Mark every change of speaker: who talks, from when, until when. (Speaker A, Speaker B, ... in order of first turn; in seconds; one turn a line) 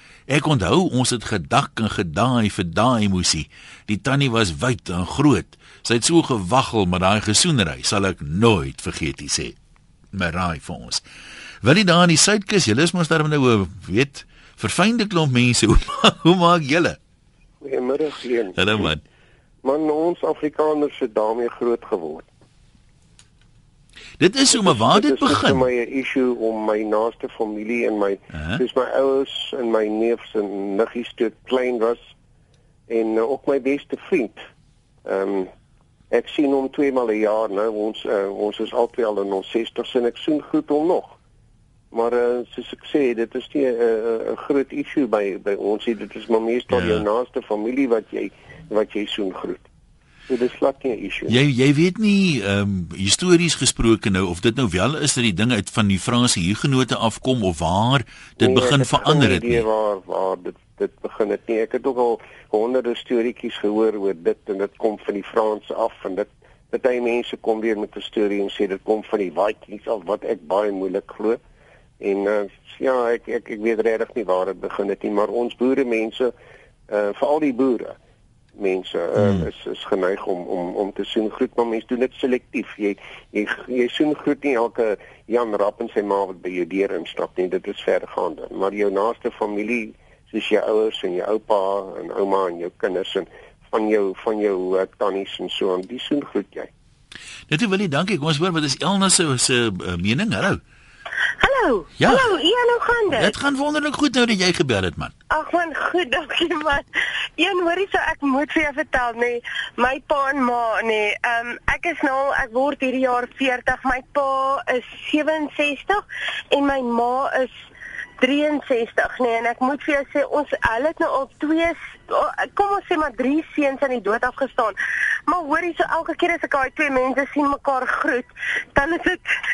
Speaker A: 0.3-9.5
Speaker A: 10.1-11.0
Speaker A: 11.6-17.0
Speaker B: 17.6-18.9
Speaker A: 18.5-19.0
Speaker B: 19.6-22.3
Speaker A: 24.2-25.7
Speaker B: 24.5-32.1
Speaker A: 28.3-28.6
Speaker B: 32.9-34.4
Speaker B: 35.0-35.5
Speaker B: 36.1-41.2
Speaker B: 41.9-49.7
Speaker A: 46.7-47.0
Speaker B: 50.3-51.4
Speaker A: 51.3-59.6
Speaker B: 58.4-71.4
Speaker B: 72.0-76.3
Speaker B: 76.9-78.0
Speaker B: 78.6-96.7
Speaker A: 79.2-79.5
Speaker A: 97.5-100.6
Speaker C: 101.4-103.3
Speaker A: 102.0-102.2
Speaker A: 103.1-105.1
Speaker C: 105.3-106.8
Speaker C: 107.4-116.0
Speaker C: 116.5-117.5
Speaker C: 118.2-124.7
Speaker C: 125.3-129.2